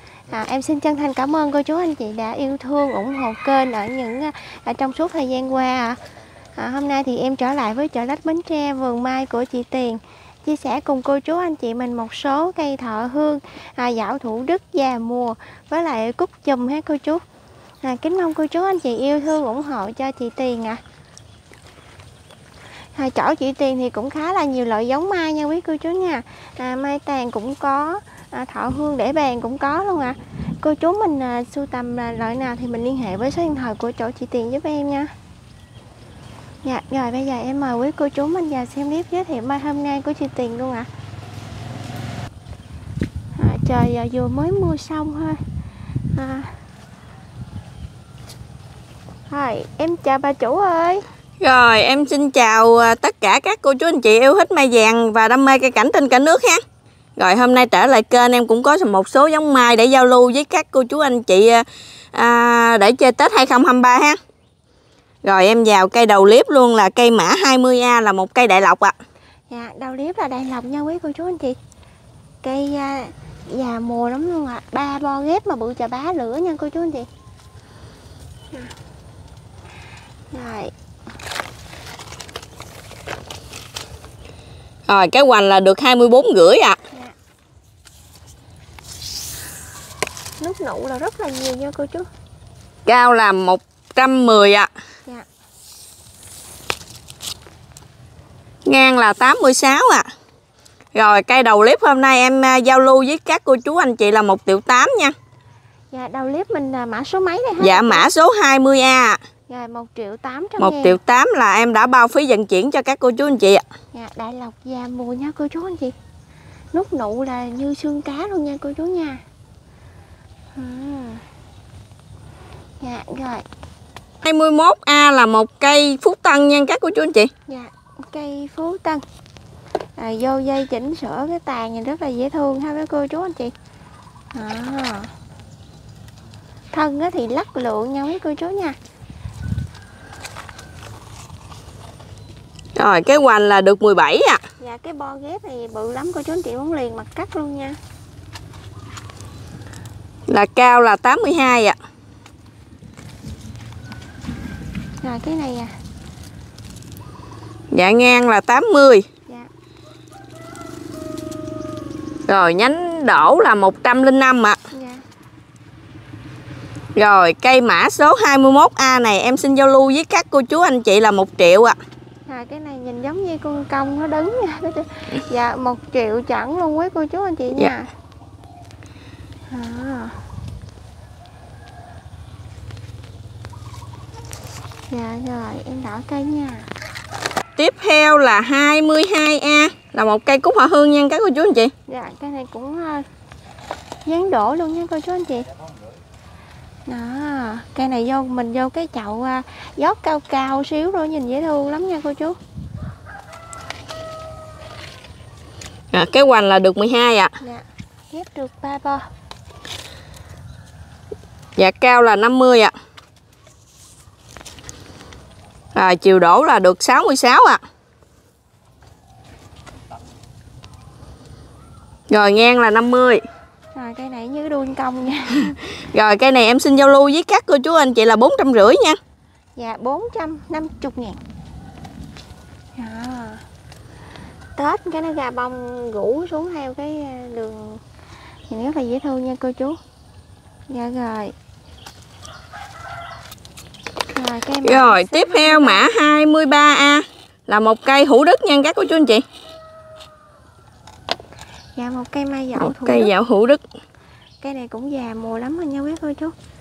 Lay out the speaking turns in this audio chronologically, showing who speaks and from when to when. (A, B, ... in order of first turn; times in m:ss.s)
0:00.3-0:06.0 A
0:06.5-0:17.2 A
0:17.8-0:20.8 A
0:22.9-0:35.1 A
0:36.6-0:40.9 A
0:43.3-0:45.4 A
0:46.1-0:46.6 A
0:49.3-0:51.0 A
0:51.4-0:56.6 B
0:57.2-1:04.2 B
1:05.2-1:09.0 B
1:09.5-1:11.6 A
1:12.4-1:17.1 A
1:20.3-1:20.7 A
1:24.9-1:26.8 B
1:30.4-1:32.1 A
1:32.8-1:34.7 B
1:38.6-1:40.1 B
1:40.9-1:45.1 B
1:45.9-1:48.0 A
1:47.6-1:49.2 B
1:49.5-1:51.0 A
1:50.6-1:53.6 B
1:53.9-1:55.9 A
1:56.7-1:59.2 A
2:00.5-2:01.2 A
2:02.8-2:03.4 A
2:04.2-2:07.3 B
2:07.5-2:09.0 A
2:10.0-2:13.5 A
2:14.3-2:15.1 A
2:16.7-2:18.8 A
2:22.8-2:24.4 B
2:24.6-2:27.8 A
2:30.3-2:31.8 B
2:35.0-2:35.7 A
2:37.7-2:39.0 B
2:42.3-2:44.6 B
2:44.7-2:45.0 A
2:47.0-2:51.8 B
2:52.2-2:57.9 A
2:59.5-3:00.2 A
3:04.9-3:06.7 A
3:07.6-3:11.7 B
3:11.9-3:13.0 A
3:14.0-3:15.5 A
3:16.8-3:22.4 A
3:25.9-3:27.3 B
3:27.4-3:29.1 A
3:31.6-3:32.7 B
3:35.7-3:37.6 B
3:42.1-3:43.2 B
3:43.7-3:45.6 A
3:45.9-3:49.0 B
3:49.6-3:51.2 A
3:52.8-3:53.4 A
3:54.6-3:57.8 A
3:58.5-3:59.8 A
4:00.7-4:01.3 A
4:04.1-4:05.8 A
4:04.6-4:09.2 B
4:11.8-4:13.1 A
4:12.6-4:13.6 B
4:14.4-4:16.3 A